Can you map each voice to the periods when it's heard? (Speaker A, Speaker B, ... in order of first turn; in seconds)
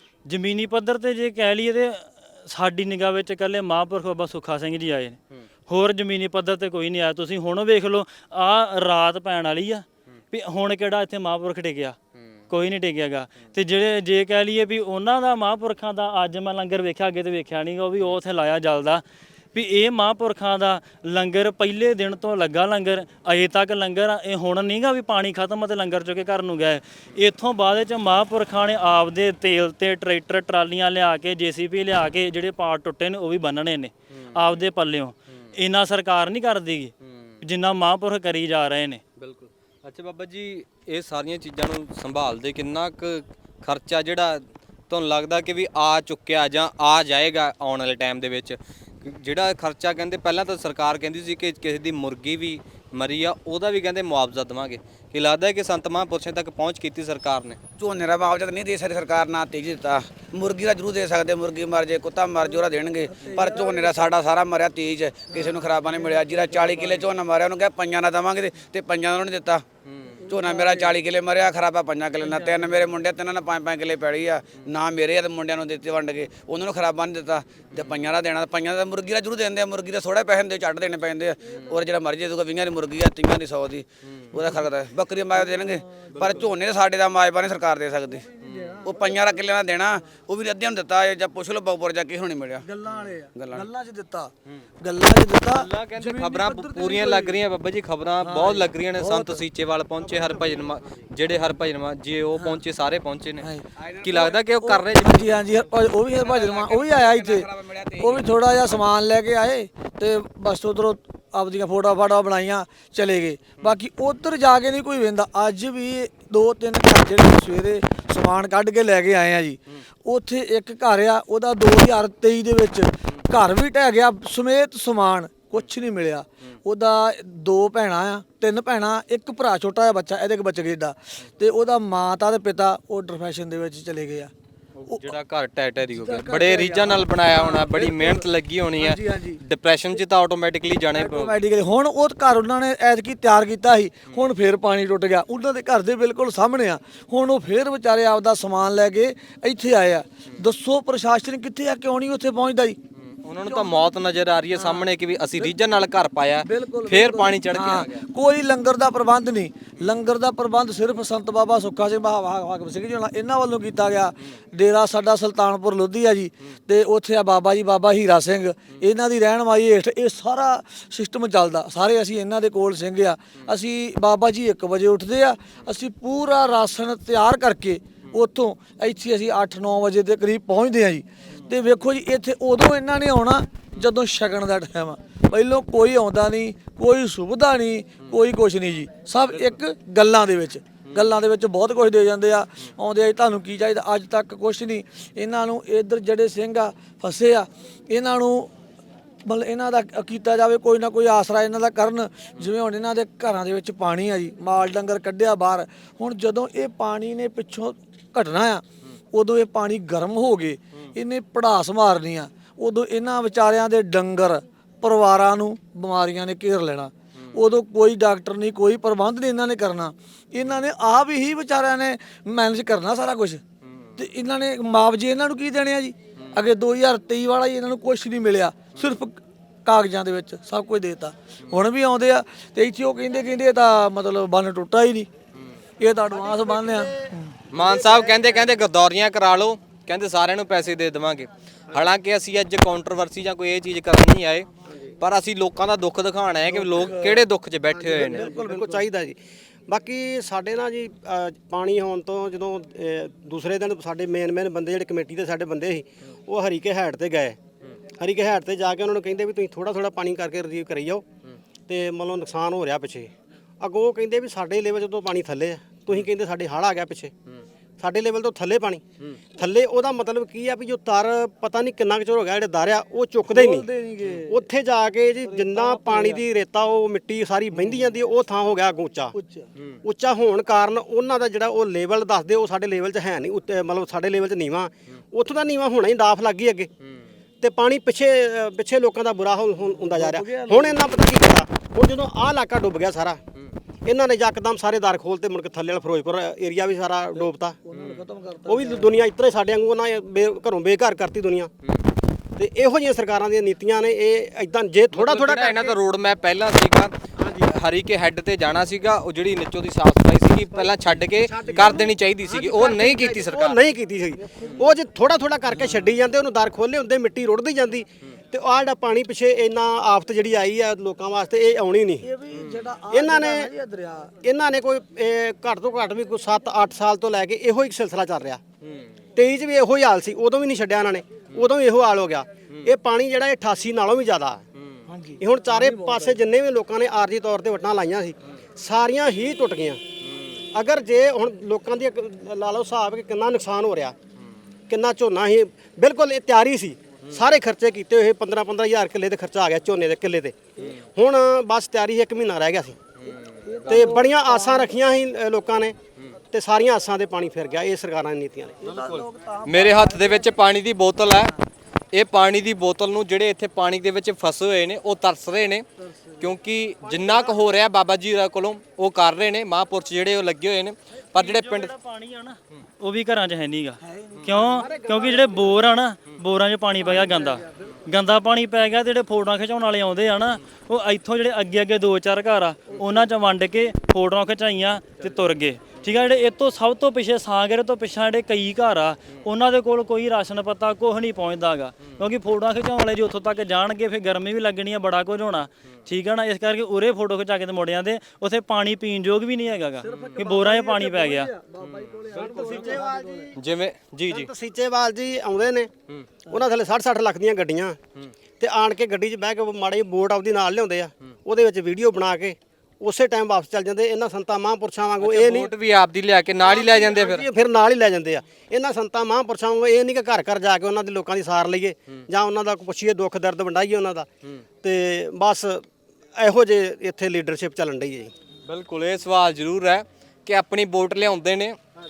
Speaker A: 0.3-12.0, 12.5-39.0, 371.1-401.3
Speaker B: 37.0-37.3, 39.2-57.6, 69.9-70.2, 86.1-86.5, 88.4-88.8, 95.5-103.5, 104.0-105.4, 134.8-141.3, 153.0-158.0, 223.6-223.9, 237.5-248.3, 297.7-298.0, 304.9-313.6, 328.6-328.9, 334.6-334.8, 340.0-340.4, 353.0-353.9, 358.6-361.3, 361.9-365.6, 366.2-371.7, 399.9-400.2, 401.6-402.0, 403.4-404.3, 415.0-417.2, 428.5-431.6
Speaker C: 57.8-69.6, 70.2-88.2, 88.8-92.7, 93.3-93.7, 103.8-104.4, 106.2-108.2
Speaker D: 63.1-64.1, 65.3-65.7, 66.5-66.8, 70.1-71.0, 72.2-72.7, 81.5-81.8, 85.3-86.5, 88.1-89.4, 92.6-97.4, 98.2-99.4, 102.4-102.6, 103.4-103.7, 104.6-107.5, 108.0-134.3, 135.8-139.4, 140.9-152.8, 153.4-153.8, 154.5-155.5, 156.4-198.5, 199.2-223.4, 224.0-235.1, 235.8-237.4, 246.5-247.3, 247.8-248.8, 273.3-274.4, 275.2-276.2, 277.5-277.9, 279.1-279.5, 289.6-291.0, 297.1-299.0, 314.1-314.7, 322.0-324.1, 334.9-336.2, 353.0-354.7, 358.6-360.4, 365.8-366.3, 373.8-374.7, 376.8-377.8, 382.7-382.9, 399.8-403.3
Speaker E: 236.1-238.5, 244.7-244.9, 247.8-249.2, 249.7-257.4, 258.0-261.0, 261.7-267.1, 267.8-268.8, 269.3-273.7, 274.2-279.1, 279.8-286.7, 287.4-293.2, 293.8-297.6, 298.5-301.5, 302.4-305.8, 307.2-307.5, 310.5-322.1, 322.9-323.5, 324.2-328.4, 329.1-334.4, 335.2-339.8, 340.5-343.9, 344.7-350.4, 350.9-352.8, 353.7-355.8, 356.3-358.6, 366.8-367.5, 374.6-375.5, 402.1-403.4, 404.1-405.7, 406.3-407.8, 408.4-415.5, 416.4-424.1, 424.6-425.6, 426.2-428.1